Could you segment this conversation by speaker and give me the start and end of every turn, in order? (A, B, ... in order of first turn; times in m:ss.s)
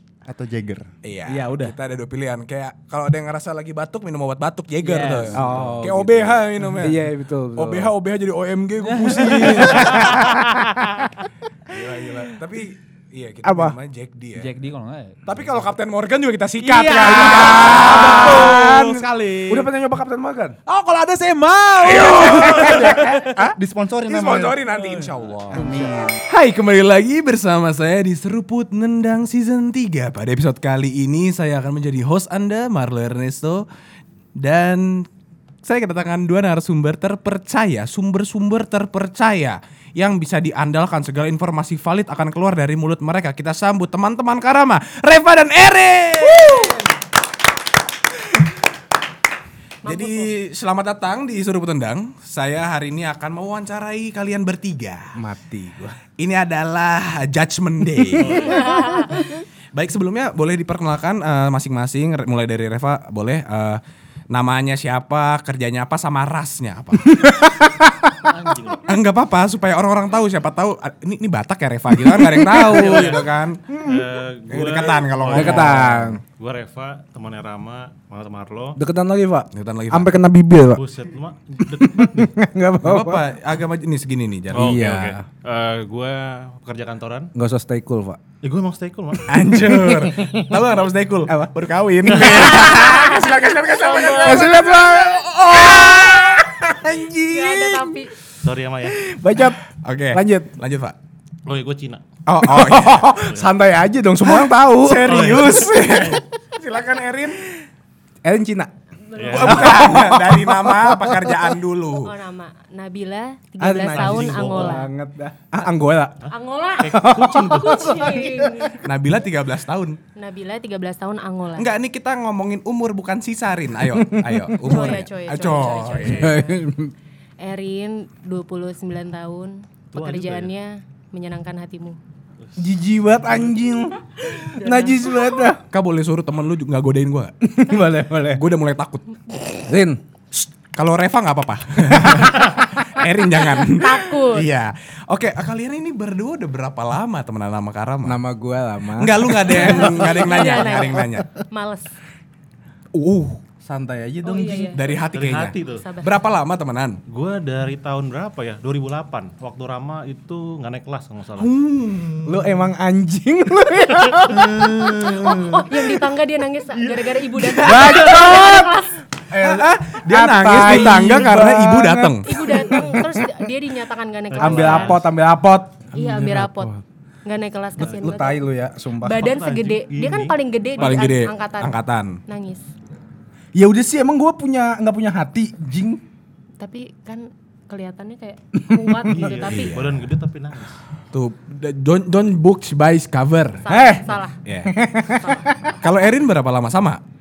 0:00.2-0:00.9 A
0:01.0-0:10.3 B
0:01.3-0:01.8 C
0:04.8-0:05.8 C
0:05.3-0:07.9 D
0:08.8-0:10.8 C
0:09.3-0:10.6 D
0:11.7-0:14.5 B
0:13.4-0:13.8 D
0:14.3-0:15.4 C
0:15.2-0:19.0 B
0:16.6-0:19.7 C
0:17.1-0:18.9 D
0:19.5-0:20.6 D
0:20.7-0:23.3 C
0:21.8-0:23.5 B
0:22.4-0:24.7 A
0:24.1-0:33.6 B
0:25.5-0:26.2 A
0:34.4-0:35.1 B
0:35.6-0:46.8 B
0:49.8-0:50.3 E
0:49.8-0:55.2 B
0:55.2-0:56.0 D
0:56.2-0:58.6 B
0:58.2-0:58.8 F
0:58.3-0:59.4 E
0:59.7-1:07.3 B
1:08.3-1:08.9 F
1:08.9-1:13.8 B
1:11.9-1:13.2 D
1:12.7-1:13.3 F
1:13.7-1:14.0 D
1:13.8-1:18.8 F
1:14.5-1:16.2 B
1:15.3-1:16.2 D
1:18.8-1:20.8 D
1:19.5-1:20.1 B
1:20.7-1:22.3 F
1:21.7-1:23.2 D
1:22.8-1:24.8 B
1:24.5-1:27.3 F
1:24.5-1:25.2 D
1:27.3-1:28.2 D
1:28.4-1:29.3 F
1:29.3-1:34.8 B
1:29.4-1:30.5 D
1:31.3-1:31.5 D
1:32.0-1:33.4 D
1:33.8-1:34.7 E
1:34.1-1:38.0 D
1:37.3-1:38.1 E
1:38.4-1:39.0 F
1:39.0-1:39.6 D
1:39.8-1:41.0 B
1:40.1-1:40.5 D
1:41.4-1:42.0 F
1:42.3-1:43.2 B
1:42.4-1:46.1 D
1:43.2-1:43.5 F
1:44.7-1:47.4 B
1:45.0-1:45.7 F
1:48.2-1:48.7 D
1:49.1-1:49.7 E
1:49.1-1:49.9 F
1:49.3-1:52.1 B
1:49.3-1:51.5 D
1:51.9-1:54.9 E
1:53.6-1:56.3 D
1:53.9-1:54.8 F
1:56.3-1:58.8 E
1:56.8-1:58.0 F
1:56.8-1:58.7 D
1:58.8-2:00.0 B
2:00.2-2:01.7 E
2:01.6-2:06.3 B
2:03.9-2:05.0 D
2:04.6-2:06.7 E
2:06.1-2:06.9 D
2:07.4-2:12.0 E
2:09.9-2:10.5 F
2:12.6-2:15.6 D
2:13.2-2:13.6 F
2:14.6-2:15.5 E
2:15.7-2:17.3 B
2:17.4-2:18.4 D
2:18.3-2:19.1 B
2:19.6-2:20.0 D
2:20.3-2:28.2 B
2:22.0-2:22.5 D
2:23.6-2:24.5 E
2:28.0-2:31.0 D
2:29.0-2:31.3 B
2:29.5-2:31.9 E
2:33.0-2:34.8 D
2:34.2-2:34.9 E
2:34.7-2:37.0 B
2:35.0-2:35.9 F
2:35.7-2:36.3 E
2:37.1-2:41.5 F
2:41.4-2:42.7 B
2:42.2-2:46.0 D
2:44.9-2:48.9 E
2:47.4-2:48.8 D
2:47.6-2:48.2 F
2:49.3-2:53.4 D
2:49.3-2:52.4 B
2:52.2-2:55.0 E
2:54.3-2:55.1 F
2:54.3-2:56.8 D
2:55.9-2:56.7 E
2:57.2-2:58.4 E
2:57.8-2:59.3 D
2:57.8-2:58.1 F
2:59.0-3:01.8 E
2:59.2-3:01.1 F
3:00.8-3:02.2 B
3:02.3-3:02.6 E
3:03.5-3:06.0 D
3:06.6-3:09.8 E
3:08.7-3:09.2 D
3:09.1-3:10.8 F
3:09.1-3:10.1 B
3:11.1-3:13.6 B
3:13.6-3:14.4 E
3:13.7-3:14.1 D
3:14.4-3:14.7 B
3:14.6-3:15.7 D
3:15.1-3:15.7 E
3:15.8-3:17.0 B